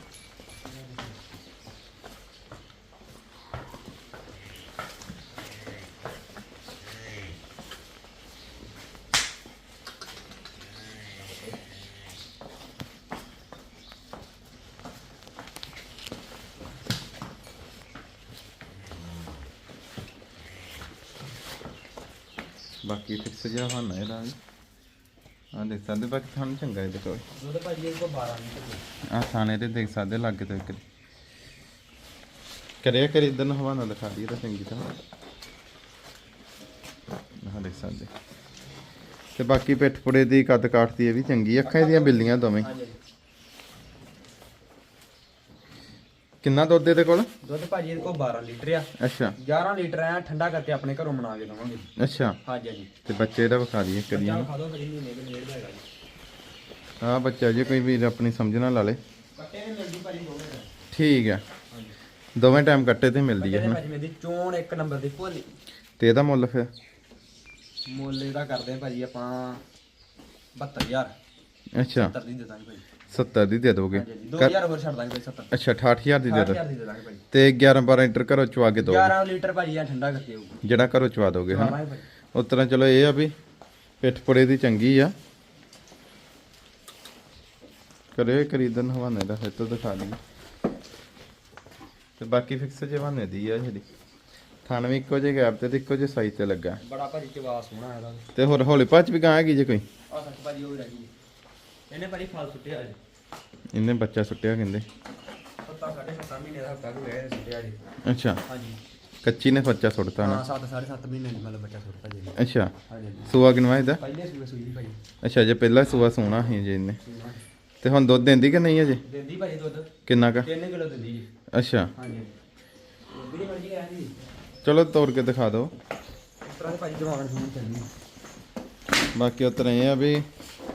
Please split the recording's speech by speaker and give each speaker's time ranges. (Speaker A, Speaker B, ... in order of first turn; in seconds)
Speaker A: 0.7-1.1, 27.4-28.8, 41.6-43.0, 47.4-51.9, 52.4-52.9, 54.1-55.8, 59.4-60.7, 63.4-65.5, 67.9-69.6, 70.5-71.1, 71.9-72.8, 73.9-75.5, 76.2-77.2, 78.8-80.6, 81.5-82.0, 96.8-98.2, 100.1-101.1, 101.9-103.0, 105.6-107.8, 108.5-108.8, 110.2-112.3, 112.9-113.3, 114.0-115.0, 117.0-117.4, 119.0-121.3, 122.0-122.3, 123.1-124.1, 126.4-127.9
Speaker B: 22.8-24.4, 25.5-27.2, 29.1-30.8, 32.8-34.9, 37.4-38.1, 39.4-42.7, 46.4-47.3, 49.0-49.3, 52.0-52.4, 53.0-54.5, 57.0-59.0, 60.9-61.4, 62.4-63.8, 66.0-66.7, 71.8-72.1, 73.1-74.5, 75.5-76.6, 77.3-79.1, 80.6-81.8, 82.3-83.3, 84.0-85.1, 88.1-90.2, 92.2-93.8, 94.6-96.8, 98.3-99.8, 103.7-104.8, 108.0-108.4, 109.2-110.4, 112.4-112.7, 113.3-114.0, 115.2-117.0, 117.8-119.0, 120.1-120.5, 121.5-121.9, 124.6-125.7, 129.2-130.2